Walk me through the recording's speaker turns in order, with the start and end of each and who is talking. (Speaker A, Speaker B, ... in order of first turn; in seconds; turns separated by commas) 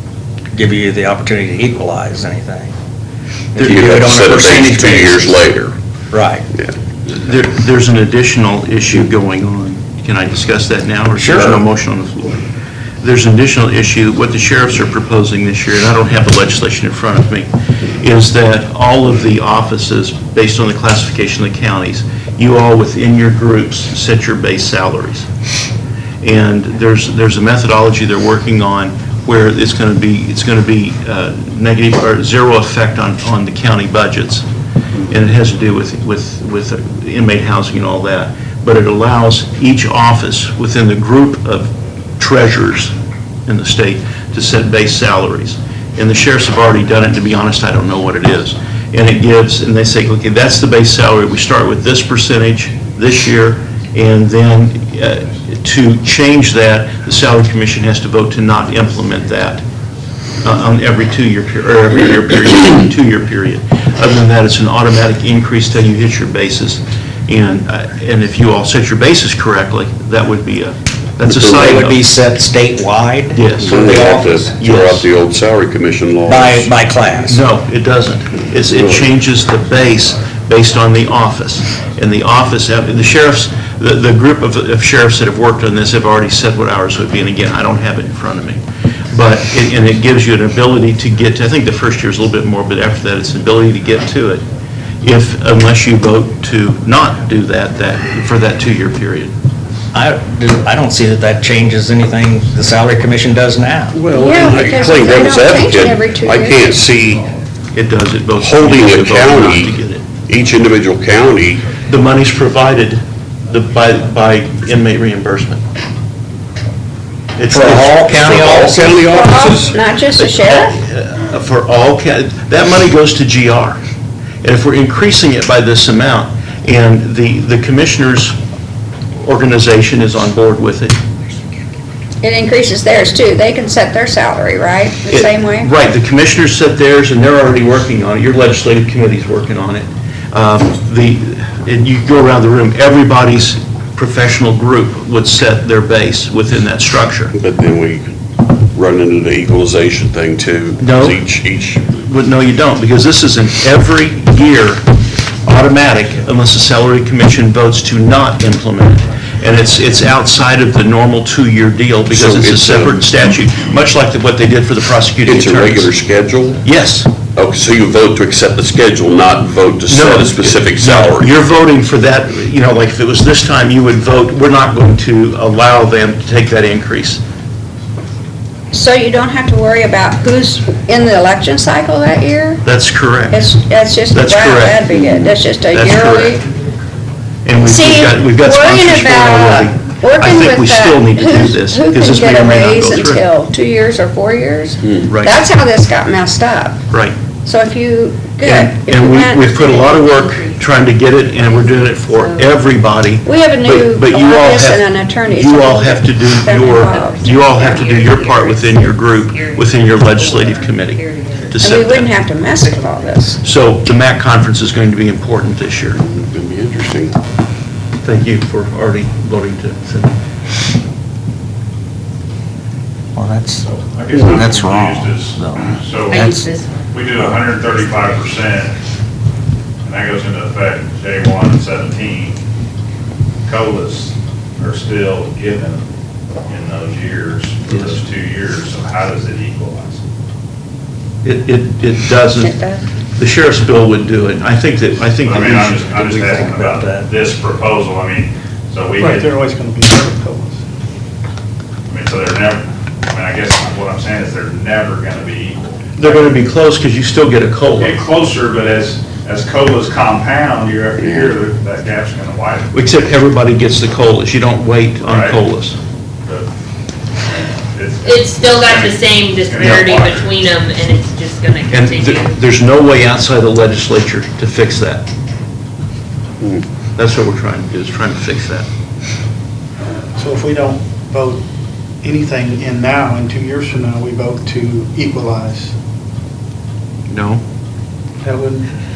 Speaker A: 0.5-2.8, Speaker A: 3.5-5.4, Speaker B: 3.6-5.8, Speaker A: 6.1-6.5, Speaker C: 7.1-12.4, Speaker A: 11.2-11.6, Speaker C: 13.0-25.3, Speaker C: 26.2-34.5, Speaker C: 35.0-42.9, Speaker C: 43.5-59.6, Speaker C: 60.4-72.0, Speaker B: 71.3-71.7, Speaker A: 71.3-74.5, Speaker C: 73.3-75.1, Speaker B: 73.6-76.7, Speaker A: 76.2-77.4, Speaker C: 77.2-88.6, Speaker B: 78.7-79.1, Speaker C: 89.1-94.4, Speaker C: 95.0-99.3, Speaker A: 99.9-104.0, Speaker B: 103.9-107.3, Speaker D: 104.1-106.8, Speaker C: 107.7-110.0, Speaker B: 108.4-109.8, Speaker B: 110.3-111.7, Speaker C: 111.8-115.6, Speaker C: 117.3-118.1, Speaker A: 117.5-119.6, Speaker B: 117.6-119.8, Speaker D: 119.1-120.7, Speaker C: 120.1-123.8, Speaker C: 124.4-128.4, Speaker C: 129.2-131.0, Speaker D: 132.2-135.7, Speaker C: 135.1-147.3, Speaker B: 147.3-148.1, Speaker B: 148.7-151.8, Speaker C: 150.8-151.2, Speaker C: 151.9-154.8, Speaker C: 155.4-165.9, Speaker B: 162.1-163.2, Speaker B: 165.2-166.6, Speaker C: 166.6-167.1, Speaker B: 167.3-171.3, Speaker C: 169.9-177.2, Speaker D: 178.7-182.6, Speaker C: 182.6-183.5, Speaker D: 183.3-186.4, Speaker C: 184.1-185.0, Speaker B: 185.0-185.3, Speaker C: 185.7-186.4, Speaker C: 187.4-193.2, Speaker D: 187.6-196.8, Speaker C: 195.1-195.4, Speaker C: 196.9-197.2, Speaker D: 197.4-200.2, Speaker C: 198.4-212.1, Speaker E: 199.6-202.6, Speaker D: 203.2-207.8, Speaker E: 206.8-211.6, Speaker D: 211.6-213.4, Speaker C: 213.4-216.0, Speaker B: 215.9-217.2, Speaker C: 218.0-220.2, Speaker A: 223.2-226.5, Speaker F: 223.7-226.2, Speaker G: 223.9-224.5, Speaker E: 226.1-227.8, Speaker G: 226.9-227.3, Speaker F: 226.9-228.7, Speaker F: 229.9-232.3, Speaker G: 230.3-231.9, Speaker F: 233.5-235.8, Speaker G: 233.6-233.9, Speaker G: 234.7-235.7, Speaker F: 236.5-240.0, Speaker G: 237.2-237.8, Speaker C: 237.7-238.0, Speaker G: 239.2-239.6, Speaker C: 241.2-242.6, Speaker D: 242.4-242.8, Speaker C: 243.2-245.9, Speaker G: 245.2-245.8, Speaker F: 245.2-249.2, Speaker A: 245.6-247.1, Speaker G: 246.4-247.2, Speaker G: 248.7-250.6, Speaker F: 251.9-256.1, Speaker C: 256.0-258.0, Speaker F: 257.8-262.7, Speaker G: 260.9-262.1, Speaker B: 261.0-261.4, Speaker C: 262.7-265.8, Speaker F: 265.1-265.4, Speaker F: 267.2-268.9, Speaker E: 268.0-272.4, Speaker G: 268.1-268.7, Speaker F: 269.5-270.0, Speaker C: 269.6-269.9, Speaker C: 271.7-275.1, Speaker C: 277.0-278.7, Speaker G: 280.1-281.4, Speaker G: 282.0-285.7, Speaker C: 287.1-287.4, Speaker G: 288.2-288.7